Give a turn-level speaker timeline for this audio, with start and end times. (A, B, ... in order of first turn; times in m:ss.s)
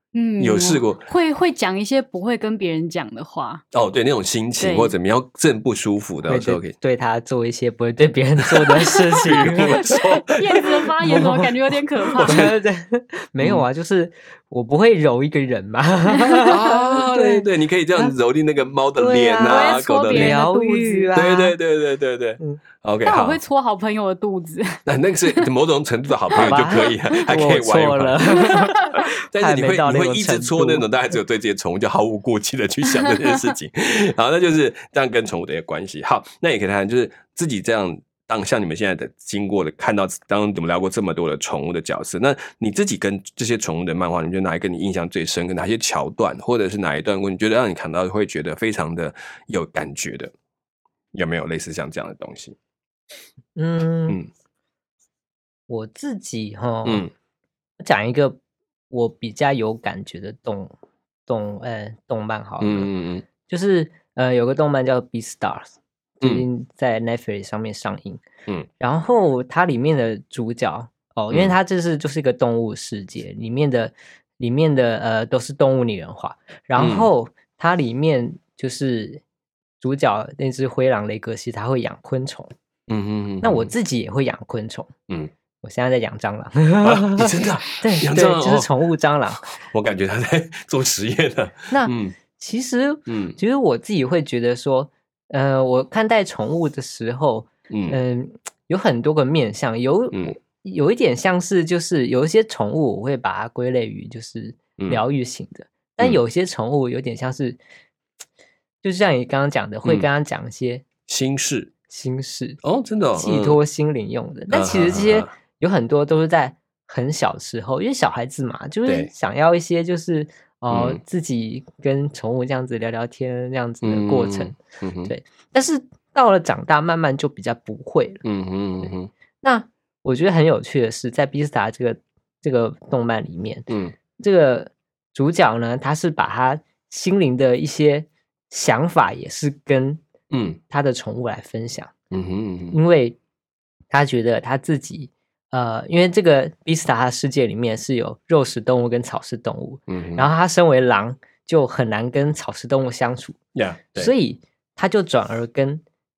0:00.1-0:03.6 A
0:00.4-0:01.0 B
0:03.7-0:06.7 B
0:04.6-0:04.9 A
0:06.3-0:09.9 C
0:08.5-0:11.4 B
0:09.6-0:12.5 A
0:11.0-0:11.5 C
0:12.1-0:12.6 B
0:12.2-0:18.1 C
0:13.4-0:13.6 B
0:16.2-0:16.4 A
0:16.5-0:20.4 B
0:19.0-0:21.5 C
0:19.4-0:21.1 A
0:21.1-0:23.4 B
0:23.0-0:25.4 A
0:24.8-0:28.7 B
0:26.4-0:30.9 C
0:29.3-0:50.3 B
0:33.0-0:33.5 A
0:51.1-0:52.6 B
0:53.5-0:54.2 C
0:55.7-0:57.0 C
0:56.8-0:57.1 B
0:57.8-0:58.4 C
0:58.9-1:00.7 C
1:01.3-1:02.9 C
1:02.6-1:03.2 B
1:03.4-1:05.6 C
1:06.2-1:08.2 C
1:08.8-1:19.2 C
1:16.8-1:17.1 B
1:19.8-1:22.5 C
1:22.9-1:23.7 B
1:23.4-1:24.9 C
1:25.6-1:29.5 C
1:26.8-1:28.7 B
1:29.6-1:32.2 B
1:31.7-1:47.6 C
1:33.1-1:33.4 B
1:37.7-1:38.0 B
1:48.8-1:50.8 C
1:51.1-1:51.7 B
1:51.9-1:52.6 C
1:52.6-1:53.6 B
1:53.2-2:08.2 C
1:54.5-1:55.3 B
1:58.8-1:59.1 B
2:00.7-2:01.0 B
2:03.8-2:05.1 B
2:08.2-2:09.1 B
2:09.4-2:20.0 C
2:13.7-2:13.9 B
2:20.3-2:20.6 B
2:20.7-2:21.9 C
2:22.1-2:22.8 B
2:22.7-2:23.2 C
2:23.9-2:33.4 C
2:29.9-2:30.3 B
2:33.5-2:34.1 B
2:34.0-2:35.8 C